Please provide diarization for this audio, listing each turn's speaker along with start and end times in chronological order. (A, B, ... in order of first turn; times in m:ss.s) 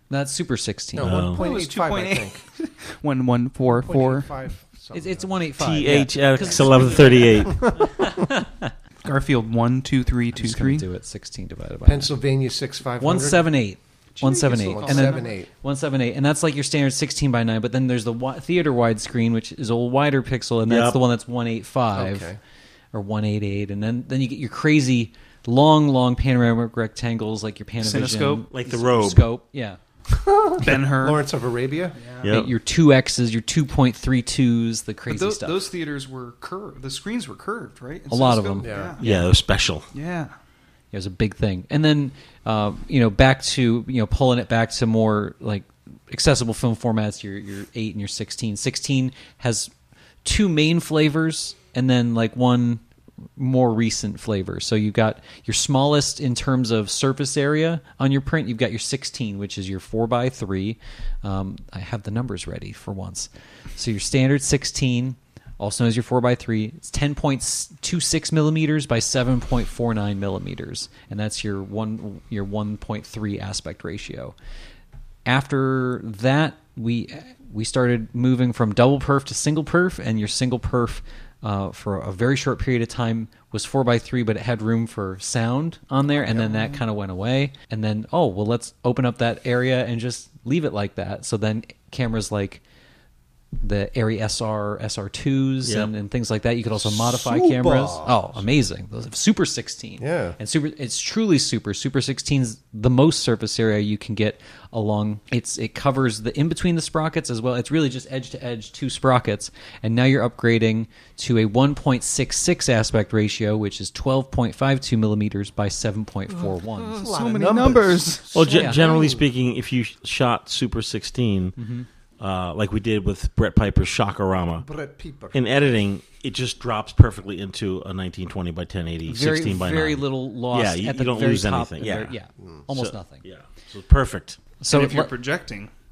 0:00.1-0:01.3 A
0:01.0-0:02.4 B
0:01.0-0:01.4 C
0:01.4-0:04.3 D
0:03.7-0:05.5 B
0:04.9-0:08.7 A
0:05.6-0:07.7 C
0:06.4-0:08.3 B
0:09.0-0:10.8 D
0:10.3-0:12.1 A
0:11.8-0:13.5 B
0:13.0-0:22.3 A
0:14.2-0:15.3 D
0:14.3-0:15.5 B
0:20.7-0:21.0 C
0:21.9-0:22.4 B
0:22.9-0:29.8 A
0:27.8-0:28.5 D
0:28.5-0:29.3 C
0:30.1-0:32.0 B
0:30.6-0:31.3 D
0:32.0-0:32.3 D
0:32.2-0:32.5 C
0:32.3-0:35.6 A
0:35.1-0:39.0 D
0:38.1-0:39.2 A
0:38.6-0:39.0 B
0:39.0-0:39.9 C
0:39.9-0:40.3 D
0:40.9-0:49.7 A
0:50.2-0:52.8 A
0:53.4-1:14.3 A
1:15.3-1:32.6 A
1:33.6-1:57.0 A
1:35.6-1:35.9 C
1:36.7-1:38.4 B
1:40.0-1:40.4 B
1:56.8-1:58.3 D
1:56.9-1:59.3 B
1:58.3-2:01.6 C
1:58.5-1:58.8 A
2:01.6-2:01.9 A
2:02.2-2:04.7 C
2:04.6-2:05.6 B
2:05.3-2:12.1 C
2:09.1-2:13.2 A
2:12.4-2:12.6 B
2:12.7-2:14.4 C
2:14.6-2:15.1 A
2:14.7-2:15.7 D